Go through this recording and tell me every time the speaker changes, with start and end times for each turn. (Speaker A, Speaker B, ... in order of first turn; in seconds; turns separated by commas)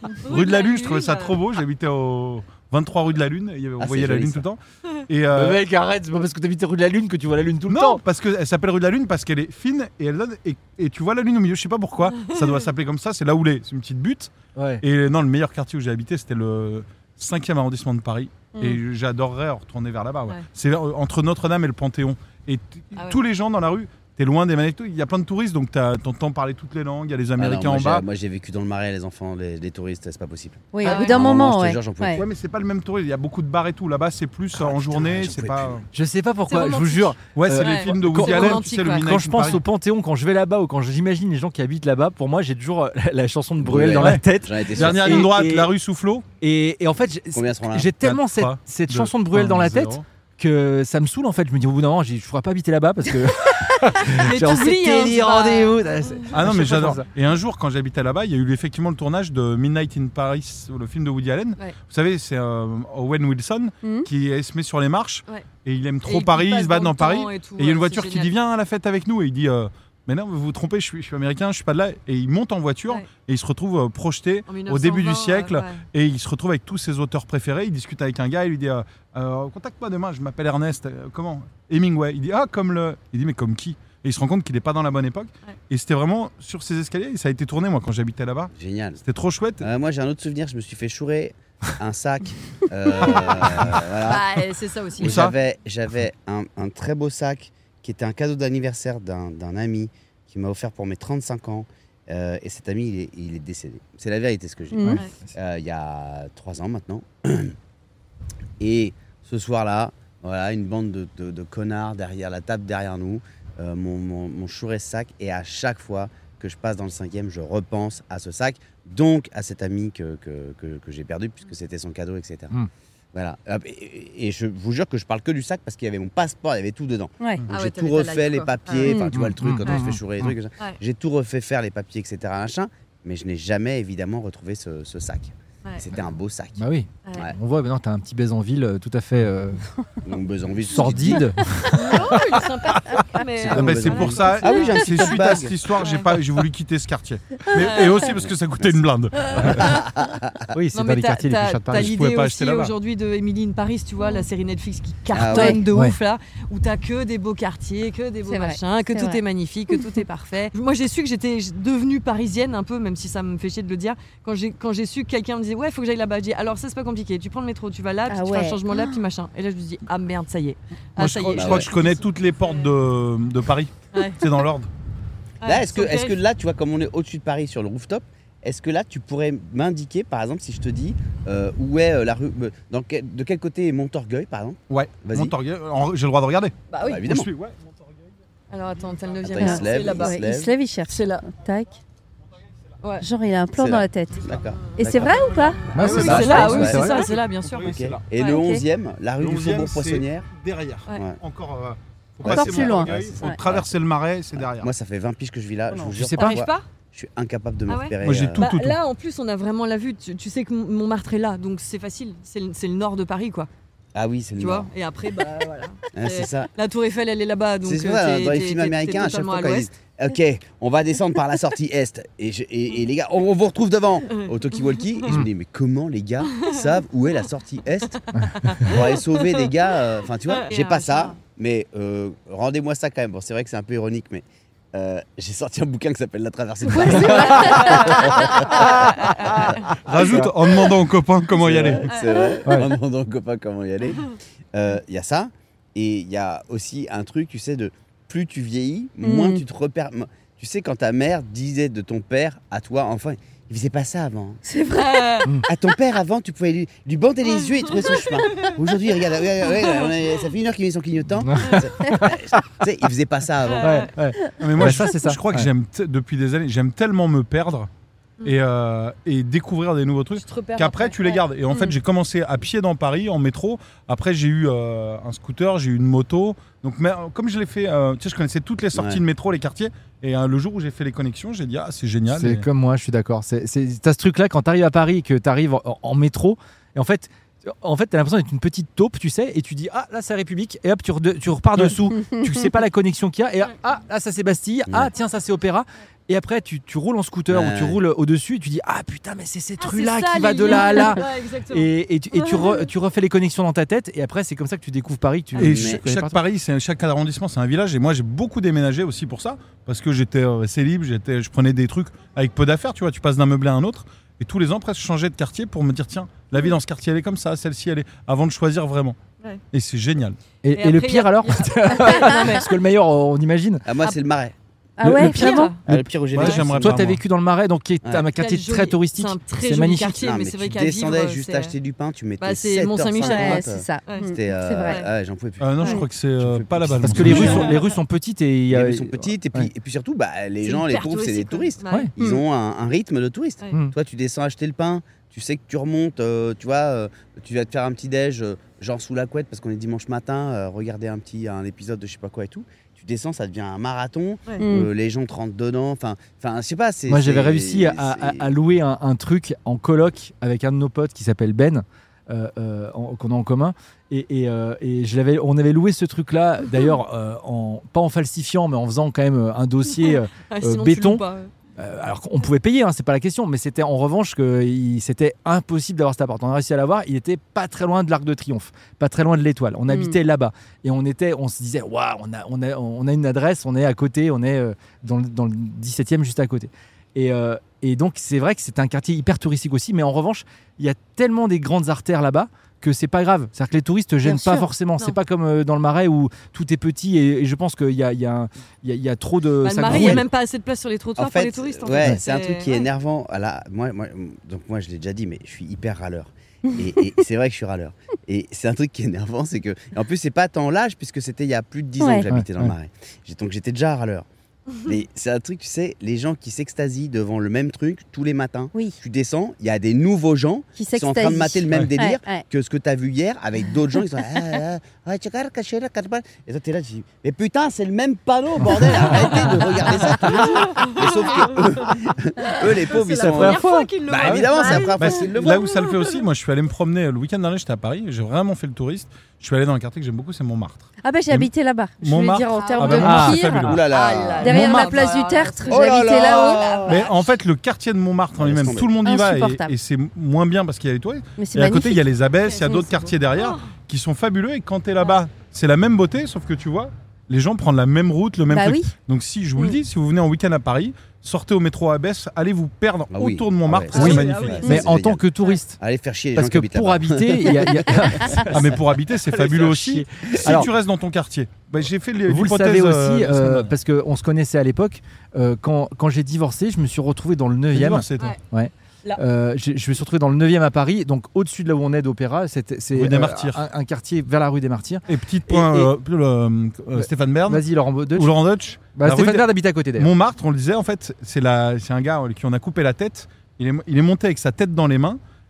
Speaker A: 0.2-1.4, Speaker B: 0.2-5.6, Speaker C: 3.8-4.4, Speaker D: 5.3-8.0, Speaker B: 7.7-28.1, Speaker A: 12.2-12.5, Speaker D: 14.6-14.8, Speaker C: 27.4-32.2, Speaker E: 30.7-32.2, Speaker A: 30.8-31.2, Speaker B: 32.1-35.9, Speaker C: 34.5-35.8, Speaker D: 35.9-45.7, Speaker A: 36.5-39.1, Speaker B: 37.4-39.6, Speaker C: 43.6-45.3, Speaker B: 43.9-46.2, Speaker D: 46.4-57.1, Speaker C: 47.3-47.9, Speaker B: 48.0-50.0, Speaker A: 54.0-56.4, Speaker B: 56.3-89.7, Speaker A: 66.1-68.3, Speaker A: 74.5-75.8, Speaker C: 88.5-89.0, Speaker C: 89.6-94.4, Speaker B: 93.5-93.8, Speaker A: 94.0-95.2, Speaker C: 95.0-107.5, Speaker B: 95.0-95.3, Speaker E: 104.7-105.0, Speaker D: 104.8-105.3, Speaker C: 108.6-122.5, Speaker C: 123.1-136.6, Speaker A: 127.5-129.0, Speaker E: 128.8-129.1, Speaker D: 129.1-130.3, Speaker D: 136.6-139.6, Speaker A: 137.1-137.3, Speaker C: 140.0-141.3, Speaker D: 140.7-141.7, Speaker A: 141.7-145.2, Speaker B: 142.8-149.8, Speaker C: 143.4-145.6, Speaker A: 145.8-146.1, Speaker A: 147.6-148.1, Speaker C: 148.2-150.4, Speaker D: 150.5-151.9, Speaker A: 150.7-172.7, Speaker B: 151.7-152.7, Speaker C: 155.1-155.6, Speaker E: 155.3-155.6, Speaker D: 155.7-155.9, Speaker E: 158.3-159.2, Speaker E: 168.1-169.0, Speaker B: 171.0-174.7, Speaker C: 171.3-171.7, Speaker A: 173.9-174.2, Speaker A: 175.4-176.2, Speaker C: 175.4-185.3, Speaker B: 184.7-187.6, Speaker A: 186.7-187.1, Speaker C: 186.8-187.3, Speaker A: 188.5-190.2, Speaker C: 189.2-190.5, Speaker E: 189.4-191.8, Speaker A: 190.9-191.2, Speaker E: 193.0-194.2, Speaker C: 193.6-195.2, Speaker E: 194.8-195.7, Speaker A: 195.7-198.4, Speaker D: 195.7-197.0, Speaker B: 195.8-198.1, Speaker C: 195.8-197.1, Speaker C: 197.6-200.3, Speaker E: 198.2-198.6, Speaker B: 199.2-204.7, Speaker C: 202.2-203.7, Speaker E: 202.2-203.4, Speaker C: 204.4-208.4, Speaker D: 205.9-206.4, Speaker A: 206.1-206.7, Speaker A: 207.7-213.5, Speaker B: 208.0-208.8, Speaker C: 213.9-214.7, Speaker A: 214.4-219.7, Speaker C: 215.9-216.5, Speaker C: 217.6-228.0, Speaker A: 224.1-225.2, Speaker A: 226.3-226.8, Speaker D: 228.1-228.6, Speaker A: 228.2-229.5, Speaker C: 228.6-240.6, Speaker A: 230.3-231.2, Speaker A: 236.7-239.7, Speaker E: 236.9-237.7, Speaker B: 239.8-241.9, Speaker C: 241.3-254.4, Speaker A: 241.9-242.4, Speaker E: 249.0-249.4, Speaker E: 254.4-255.3, Speaker A: 254.7-255.3, Speaker C: 255.4-263.9, Speaker A: 257.3-258.6, Speaker A: 259.6-259.9, Speaker D: 261.2-262.4, Speaker A: 261.4-261.6, Speaker A: 263.4-263.9, Speaker D: 263.6-265.5, Speaker B: 264.4-267.7, Speaker B: 268.2-282.5, Speaker A: 270.2-271.7, Speaker C: 278.7-279.0, Speaker D: 282.1-306.2, Speaker E: 292.0-292.3, Speaker C: 297.3-297.8, Speaker A: 299.6-302.7, Speaker C: 305.4-305.8, Speaker B: 305.4-319.0, Speaker B: 319.5-320.2, Speaker D: 320.4-323.6, Speaker A: 320.5-322.5, Speaker C: 323.6-324.3, Speaker E: 324.8-325.6, Speaker D: 324.8-329.9, Speaker A: 325.0-325.6, Speaker C: 325.6-326.7, Speaker B: 325.7-327.0, Speaker A: 328.1-331.6, Speaker C: 329.9-337.6, Speaker A: 332.2-334.1, Speaker E: 333.0-334.8, Speaker B: 335.4-337.5, Speaker D: 336.8-339.5, Speaker A: 337.1-337.6, Speaker C: 338.5-358.3, Speaker A: 340.4-341.9, Speaker E: 354.4-354.7, Speaker D: 356.9-371.1, Speaker A: 369.7-371.3, Speaker D: 371.6-400.0, Speaker E: 379.7-380.0, Speaker E: 394.0-394.5, Speaker A: 399.4-402.6, Speaker C: 399.7-400.0, Speaker C: 401.0-414.1, Speaker E: 411.8-412.1, Speaker D: 412.1-412.5, Speaker C: 414.6-435.4, Speaker E: 420.6-422.2, Speaker A: 429.7-431.7, Speaker A: 432.2-436.0, Speaker D: 432.9-434.2, Speaker B: 434.8-443.6, Speaker E: 440.8-443.5, Speaker A: 442.4-442.9, Speaker D: 442.8-443.4, Speaker C: 443.4-444.4, Speaker A: 443.7-447.0, Speaker E: 444.2-446.7, Speaker B: 444.2-444.9, Speaker C: 445.5-446.9, Speaker B: 446.7-464.6, Speaker C: 448.2-448.7, Speaker E: 448.8-449.5, Speaker E: 451.2-451.8, Speaker A: 452.2-453.4, Speaker E: 458.3-458.7, Speaker C: 462.9-465.1, Speaker A: 463.7-464.6, Speaker D: 463.7-465.6, Speaker C: 465.6-468.2, Speaker D: 466.1-470.5, Speaker B: 468.3-473.5, Speaker D: 472.1-485.7, Speaker B: 477.5-478.2, Speaker B: 482.7-483.4, Speaker B: 484.9-495.0, Speaker D: 486.7-488.1, Speaker D: 488.8-489.9